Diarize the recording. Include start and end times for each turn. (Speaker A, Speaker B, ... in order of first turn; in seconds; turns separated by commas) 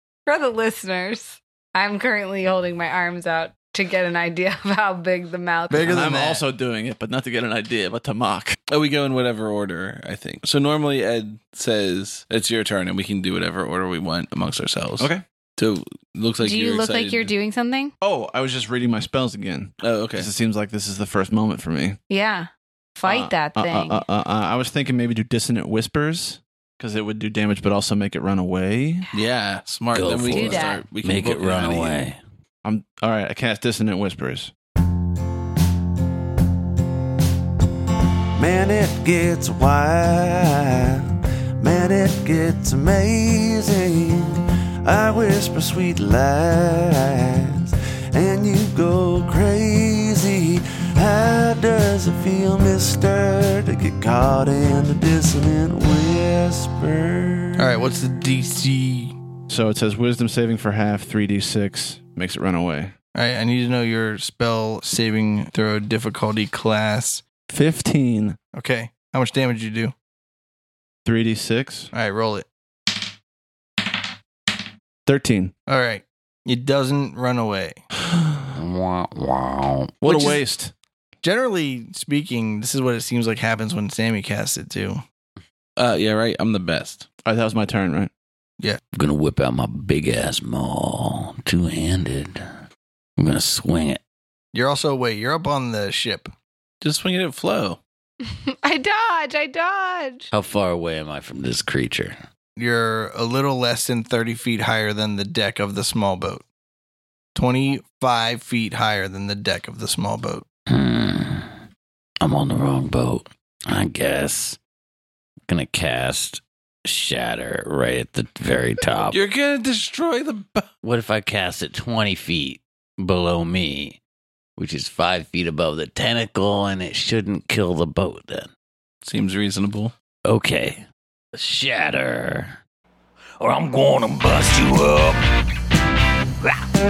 Speaker A: 0.2-5.9, Speaker B: 5.7-6.5, Speaker C: 5.8-8.6, Speaker D: 8.7-17.3, Speaker C: 15.0-15.2, Speaker A: 16.4-17.9, Speaker C: 18.0-22.0, Speaker D: 19.8-20.3, Speaker A: 22.1-24.0, Speaker D: 23.1-23.3, Speaker C: 23.5-29.1, Speaker D: 29.1-32.0, Speaker E: 29.9-32.2, Speaker A: 30.3-30.8, Speaker C: 32.6-34.5, Speaker F: 38.4-41.1, Speaker F: 41.6-57.6, Speaker B: 57.5-59.1, Speaker C: 59.5-62.9, Speaker B: 63.1-67.2, Speaker C: 67.5-68.4, Speaker B: 68.5-69.9, Speaker C: 71.0-71.9, Speaker B: 71.9-72.5, Speaker C: 75.0-75.5, Speaker B: 75.7-77.8, Speaker C: 78.1-78.4, Speaker E: 78.5-79.9, Speaker C: 80.0-80.7, Speaker B: 80.0-80.4, Speaker B: 81.2-85.0, Speaker D: 85.8-87.0, Speaker C: 87.2-88.1, Speaker E: 88.9-92.4, Speaker E: 93.2-94.0, Speaker B: 94.5-96.3, Speaker D: 96.8-97.8, Speaker A: 98.2-100.3, Speaker E: 100.3-102.2, Speaker B: 102.6-106.4, Speaker B: 107.3-110.4, Speaker E: 110.7-111.5, Speaker E: 112.2-114.6, Speaker E: 115.5-119.2, Speaker D: 119.1-120.7, Speaker E: 120.8-124.0, Speaker E: 124.6-128.5, Speaker D: 129.0-129.9, Speaker E: 130.2-132.6, Speaker E: 133.4-135.3